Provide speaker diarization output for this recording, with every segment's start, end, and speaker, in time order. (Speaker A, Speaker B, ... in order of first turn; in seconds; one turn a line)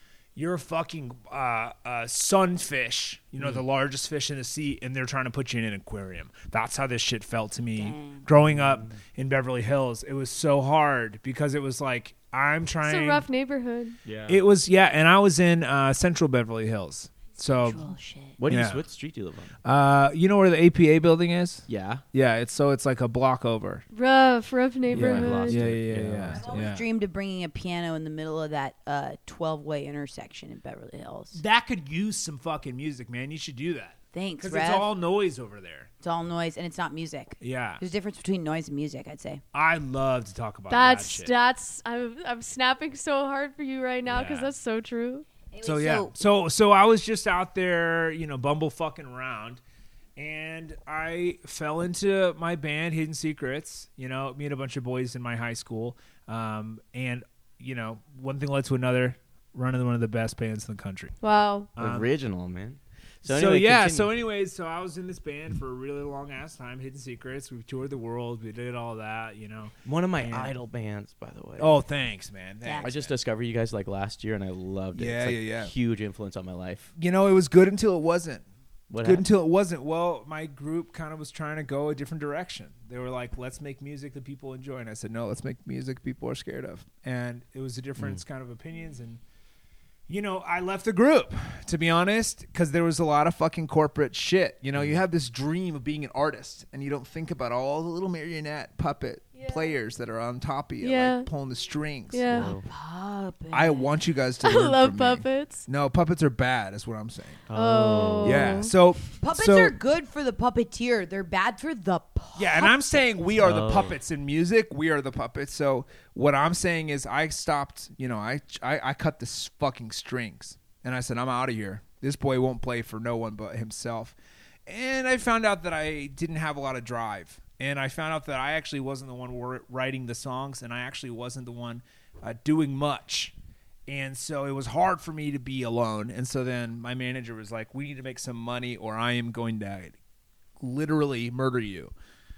Speaker A: 0.4-13.2
Speaker B: 7.8-8.3
Speaker C: 8.5-8.9
Speaker D: 12.8-14.0
Speaker C: 14.1-14.4
Speaker A: 14.3-17.9
Speaker B: 17.6-18.4
Speaker C: 18.4-19.6
Speaker A: 18.5-18.8
Speaker A: 19.6-23.9
Speaker C: 21.7-22.0
Speaker D: 23.9-25.6
Speaker C: 24.9-26.5
Speaker A: 24.9-26.9
Speaker B: 26.3-31.4
Speaker A: 31.3-35.9
Speaker B: 34.1-34.9
Speaker B: 36.0-39.4
Speaker A: 37.4-37.8
Speaker A: 39.5-41.3
Speaker D: 40.7-45.3
Speaker A: 44.1-44.5
Speaker B: 45.5-46.1
Speaker A: 45.6-49.6
Speaker A: 50.2-61.1
Speaker D: 61.2-61.7
Speaker A: 61.8-62.1
Speaker C: 61.8-64.1
Speaker A: 63.2-70.5
Speaker C: 69.8-71.8
Speaker A: 71.6-73.1
Speaker B: 72.6-72.9
Speaker C: 72.8-76.9
Speaker A: 75.0-75.7
Speaker A: 77.0-78.5
Speaker C: 78.9-79.3
Speaker A: 79.0-89.2
Speaker C: 88.0-88.2
Speaker A: 90.1-102.5
Speaker C: 94.8-95.0
Speaker D: 99.3-99.7
Speaker D: 100.8-101.3
Speaker D: 102.1-102.5
Speaker C: 102.3-102.7
Speaker B: 102.7-103.9
Speaker A: 103.5-107.4
Speaker D: 104.4-105.6
Speaker C: 107.5-108.6
Speaker D: 107.5-108.7
Speaker A: 108.2-109.8
Speaker B: 109.2-113.0
Speaker A: 112.4-124.2
Speaker C: 113.4-114.0
Speaker A: 124.7-133.3
Speaker A: 133.9-139.9
Speaker A: 140.6-141.9